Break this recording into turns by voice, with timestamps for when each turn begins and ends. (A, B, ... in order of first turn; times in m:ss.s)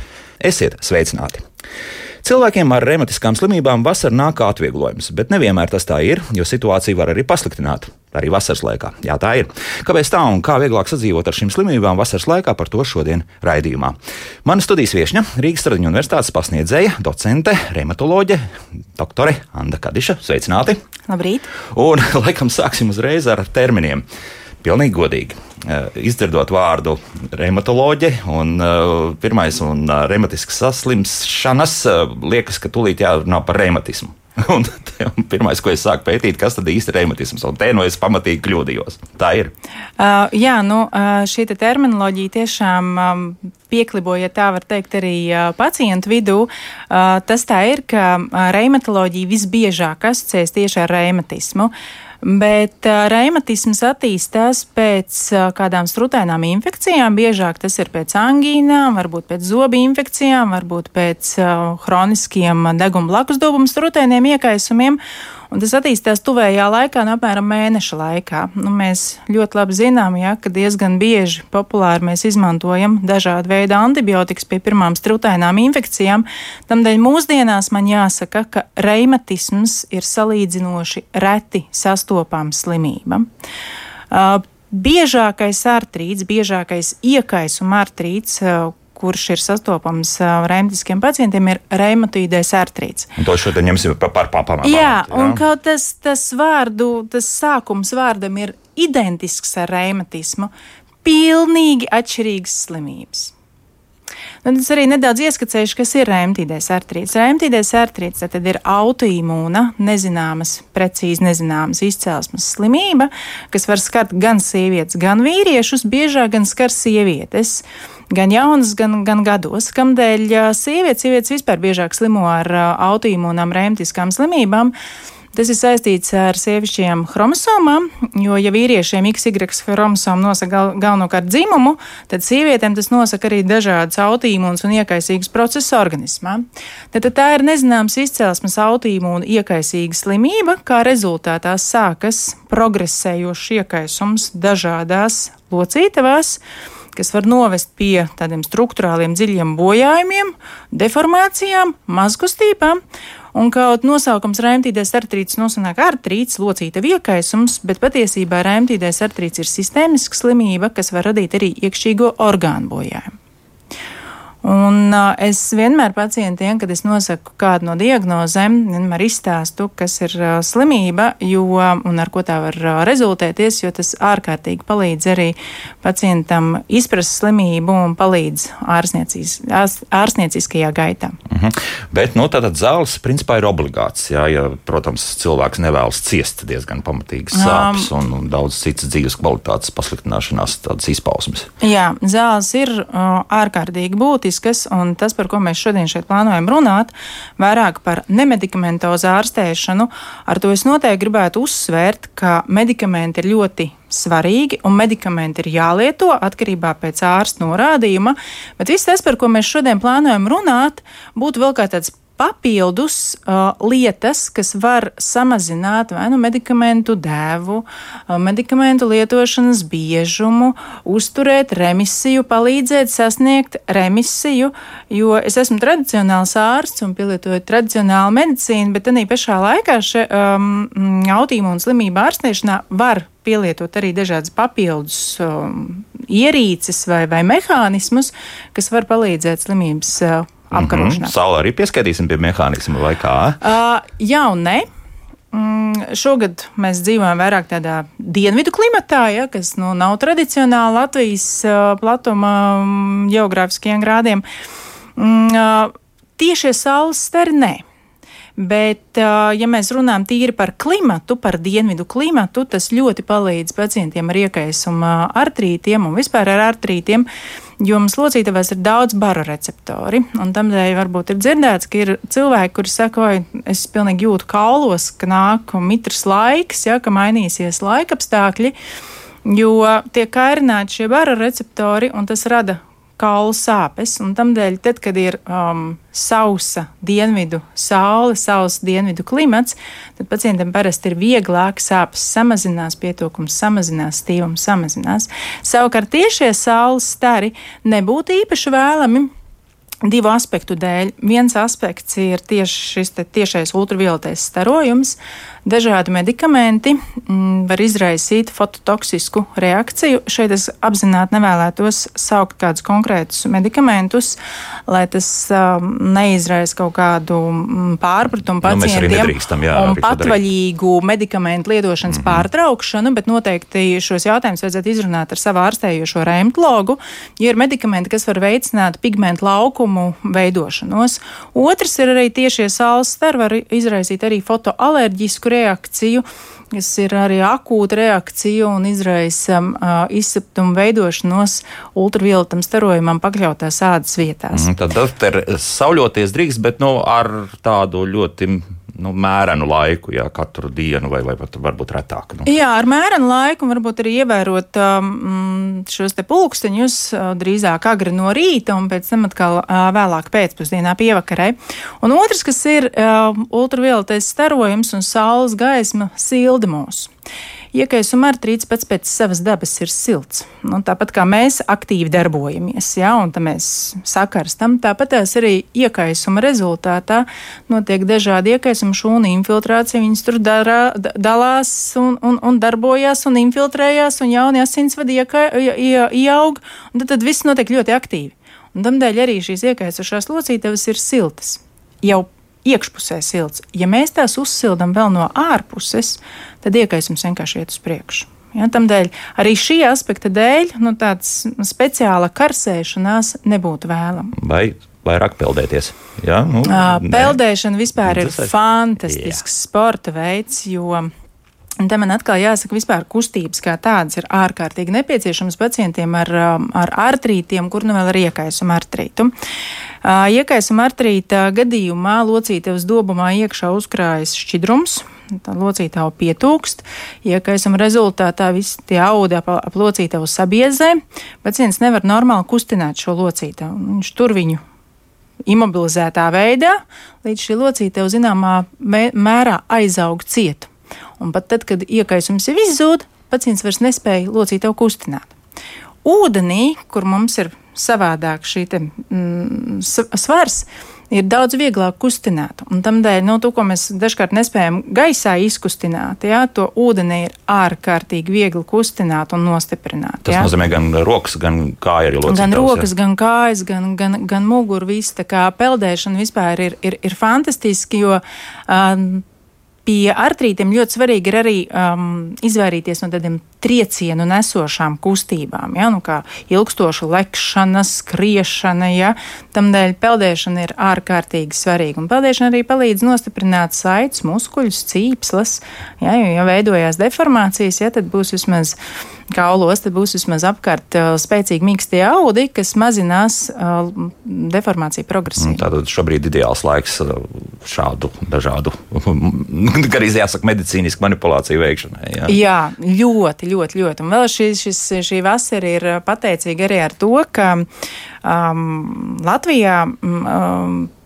0:00.4-0:01.5 A
0:02.2-0:20.8 A
0:21.1-0:21.5 B
0:21.7-0:24.0 A
0:24.6-0:39.5 A
0:40.0-1:05.0 B
1:05.5-1:23.3 B
1:24.1-1:33.1 B
1:33.2-1:35.4 A
1:34.6-1:40.5 B
1:41.0-1:43.3 B
1:44.4-2:04.8 B
2:05.3-2:26.4 B
2:27.0-2:32.8 B
2:33.3-2:43.1 B
2:44.4-3:01.2 B
3:01.3-3:11.5 A
3:07.3-3:07.9 B
3:11.6-4:01.1 B
4:00.5-4:03.4 A
4:03.4-4:04.7 B
4:05.3-4:14.2 B
4:15.0-4:17.6 B
4:18.4-4:27.1 B
4:27.6-4:38.5 B
4:39.2-4:59.1 B
4:59.8-5:44.5 B
5:18.4-5:20.2 A
5:21.9-5:22.3 A
5:44.3-5:52.3 A
5:52.2-6:06.9 B
6:07.5-6:44.1 B
6:44.2-6:47.2 A
6:46.5-6:50.9 B
6:47.8-6:49.2 A
6:51.6-6:59.1 B
6:59.8-7:14.4 B
7:15.3-7:25.1 B
7:25.8-7:40.3 B
7:40.0-7:42.7 A
7:42.1-7:49.0 B
7:49.7-8:08.6 B
8:09.1-8:15.4 B
8:15.2-8:22.2 A
8:22.1-8:27.5 B
8:28.0-8:30.7 B